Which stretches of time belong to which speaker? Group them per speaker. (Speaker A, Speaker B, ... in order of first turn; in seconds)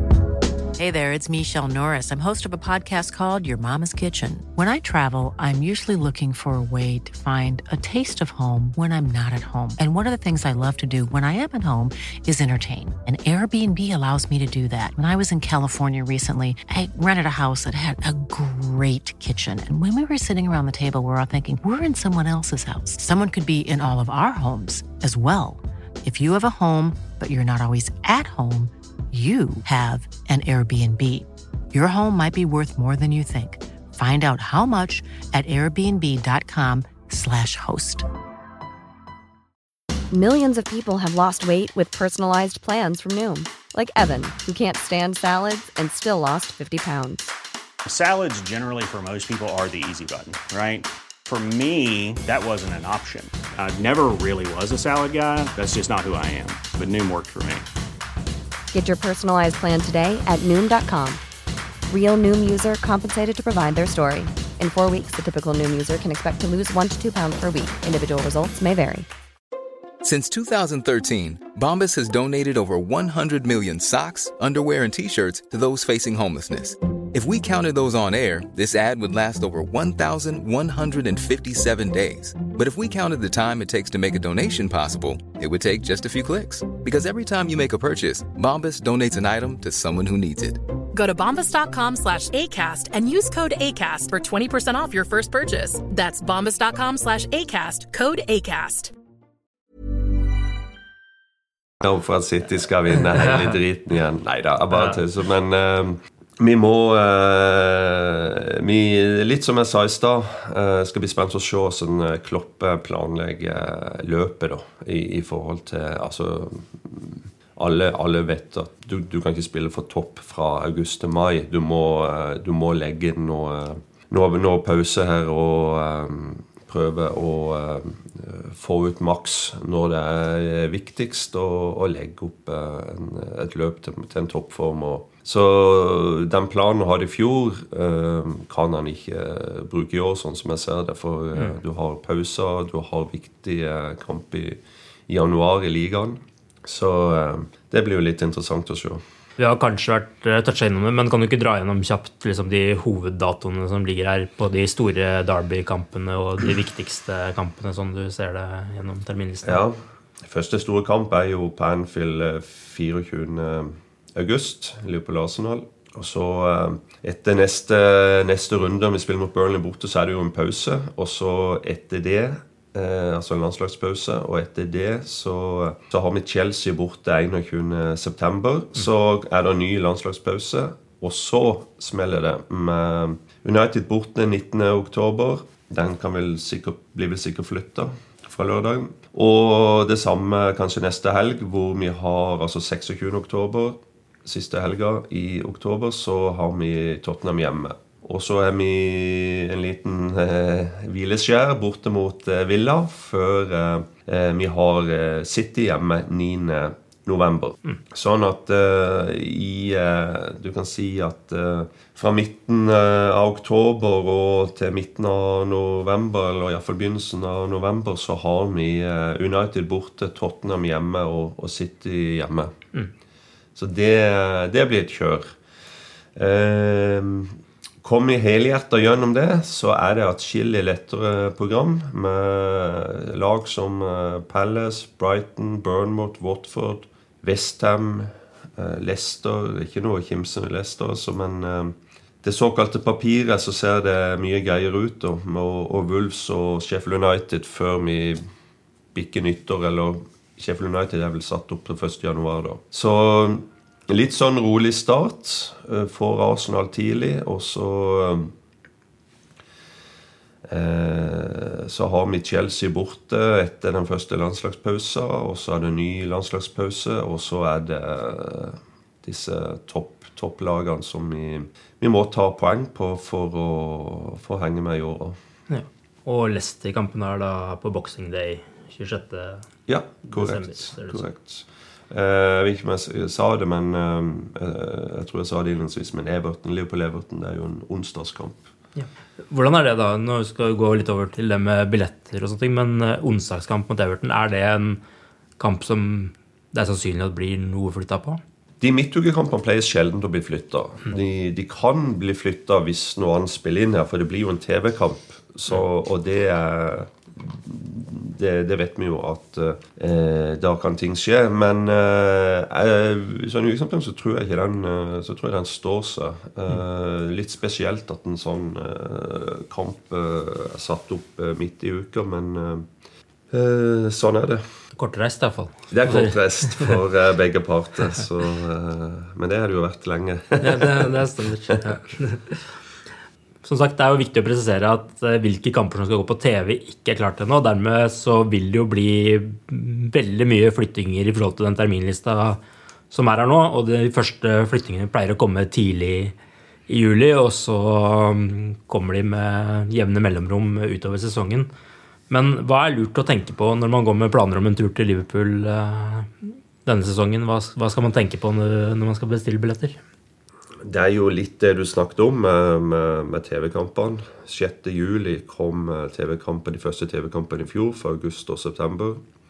Speaker A: 0.8-38.0
Speaker B: 40.1-47.3, 58.7-61.2, 61.9-69.1
Speaker C: 47.9-57.7
Speaker D: 70.0-90.6
Speaker E: 90.9-98.9
Speaker F: 101.8-149.0, 159.4-222.6, 223.6-225.4, 226.2-248.2, 248.9-258.3, 260.5-275.2, 279.7-288.4, 298.6-322.7, 323.3-324.4, 325.7-330.9, 360.6-369.0
Speaker G: 104.7-105.0, 149.4-159.6, 275.5-279.5, 280.1-281.0, 288.8-294.8, 295.4-298.2, 324.7-326.8, 330.4-332.5, 333.4-342.4, 342.9-346.1, 346.7-351.5, 352.1-359.8